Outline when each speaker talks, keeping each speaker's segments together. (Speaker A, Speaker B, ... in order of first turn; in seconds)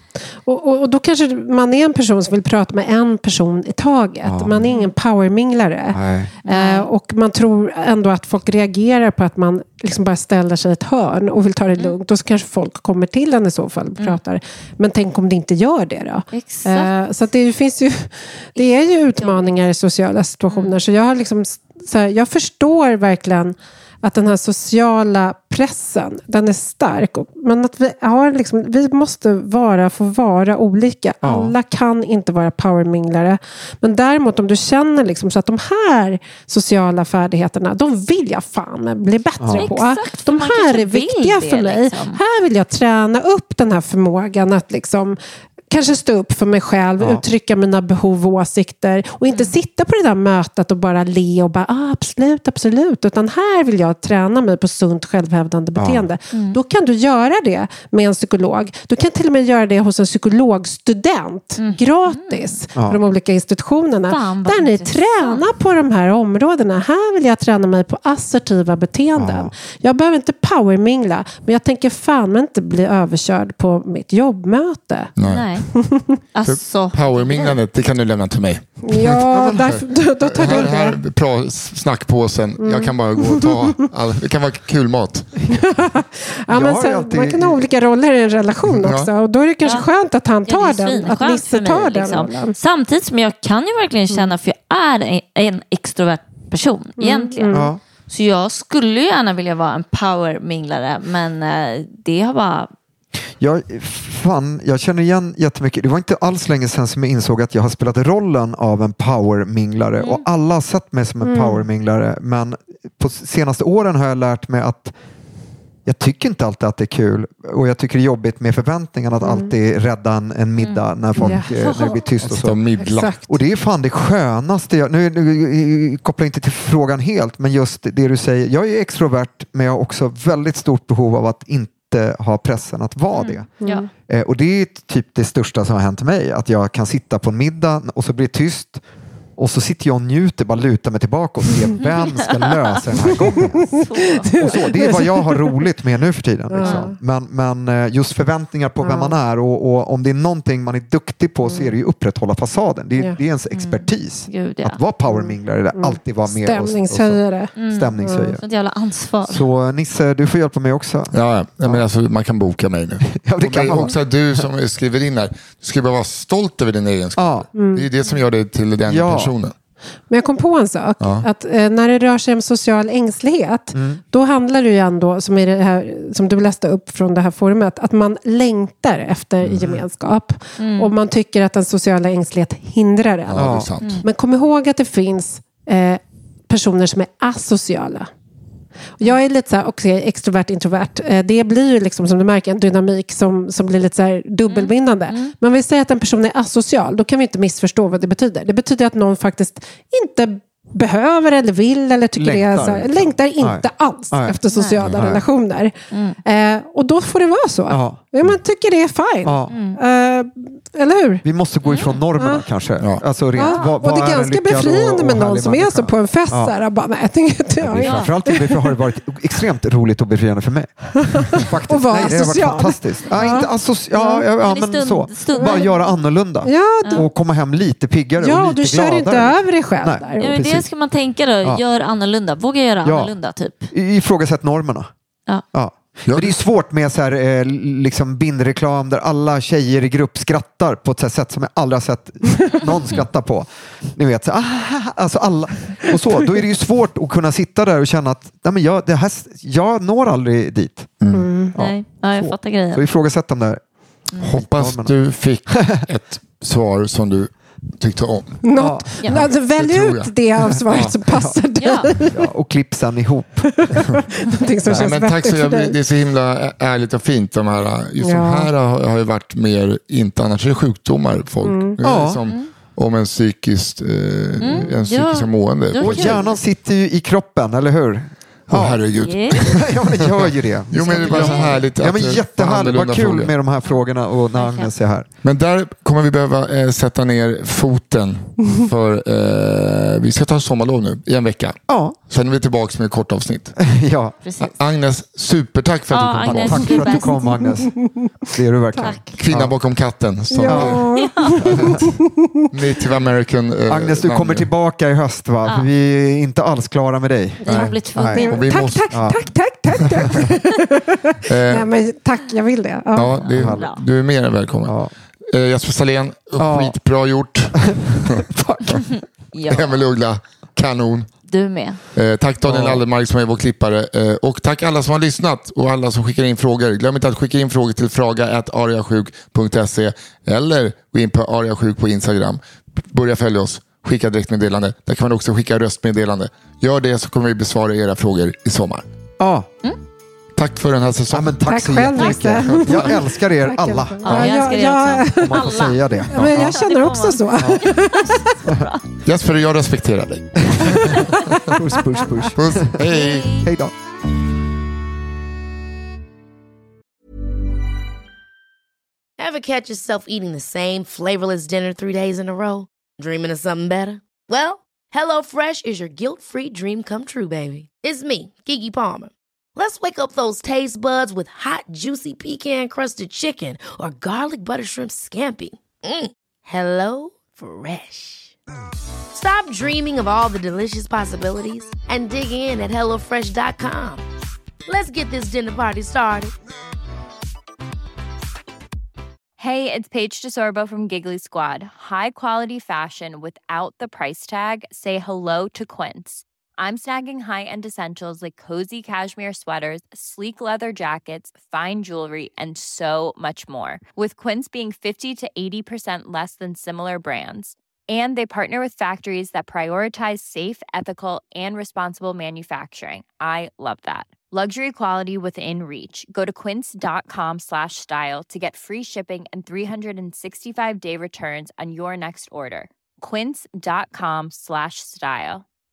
Speaker A: 0.5-45.2, 45.7-75.1, 75.8-76.2, 78.8-81.0, 82.6-83.6, 85.5-92.5, 97.0-97.7, 111.2-111.7, 119.2-119.5, 121.2-121.8, 122.8-123.3, 133.6-133.9, 144.2-145.6, 146.5-146.9, 148.8-149.1, 151.5-151.7, 155.1-158.3, 167.6-167.9, 170.1-188.1, 189.0-205.7, 206.2-211.2, 212.2-212.4, 213.3-218.6, 221.0-223.5, 225.4-225.7, 226.4-227.1, 228.2-230.4, 251.1-251.5, 258.5-262.2, 263.7-265.8, 268.0-268.5, 271.4-271.8, 296.9-297.7, 300.3-302.1, 307.5-313.2, 341.5-348.2, 350.7-352.3
Speaker B: 4.2-4.7, 5.9-6.3, 31.2-31.6, 39.4-39.7, 55.8-56.1, 69.2-69.5, 79.2-79.8, 86.5-87.7, 97.5-97.8, 103.4-114.9, 115.9-122.7, 123.3-133.5, 134.1-138.8, 139.4-143.8, 144.4-158.4, 159.3-161.8, 163.1-164.4, 167.2-167.5, 168.9-169.3, 173.7-174.0, 179.5-179.8, 183.4-183.7, 202.2-205.2, 207.7-208.1, 209.2-209.5, 211.2-216.5, 217.6-230.7, 232.8-233.1, 233.7-234.9, 235.5-251.0, 251.5-253.6, 254.2-255.8, 258.6-259.2, 261.1-261.3, 262.1-263.6, 271.8-272.2, 275.8-278.8, 279.4-285.1, 291.7-292.0, 293.6-294.2, 296.2-297.8, 298.3-299.6, 300.5-300.8, 301.5-301.8, 303.7-308.3, 313.0-313.7, 314.6-314.9, 316.4-316.8, 317.6-318.9, 322.4-322.9, 339.2-339.5, 341.1-344.5, 345.1-346.6, 351.5-352.8, 353.4-353.7
Speaker C: 6.5-6.9, 16.3-16.9, 18.6-19.5, 20.5-20.8, 39.5-42.2, 56.3-56.6, 61.6-62.6, 64.1-65.4, 75.2-75.7, 76.3-77.6, 90.5-102.7, 110.0-110.2, 120.6-120.9, 121.6-122.0, 133.1-133.9, 142.4-142.8, 143.3-144.8, 146.6-146.9, 153.5-154.8, 157.6-159.5, 180.6-180.9, 194.5-195.3, 204.5-204.8, 205.9-206.2, 209.5-209.8, 211.6-212.0, 213.4-213.7, 217.8-218.1, 223.2-223.5, 224.1-225.8, 230.2-233.7, 251.6-252.8, 261.6-261.9, 274.4-276.4, 279.0-279.4, 280.8-281.6, 284.3-284.7, 294.2-294.6, 295.9-297.1, 298.8-299.1, 300.9-301.3, 307.5-308.4, 313.1-313.8, 319.3-319.8, 321.3-321.8, 344.0-348.8, 352.9-353.5
Speaker D: 75.2-75.5, 76.5-85.4, 88.8-89.1, 122.2-123.2, 161.1-169.5, 171.0-171.3, 183.3-184.1, 236.1-236.4, 251.0-251.3, 254.2-258.4, 259.1-261.0, 264.7-276.2, 278.5-283.3, 285.2-293.5, 294.4-296.8, 299.1-300.9, 301.4-301.8, 302.5-304.5, 308.0-309.1, 311.3-311.7, 313.0-314.8, 315.3-318.2, 319.5-321.1, 321.9-338.9, 340.4-341.4, 342.0-343.0, 349.1-350.8, 352.4-353.3
Speaker E: 359.2-378.4, 379.1-384.1, 384.7-386.3
Speaker F: 389.4-425.4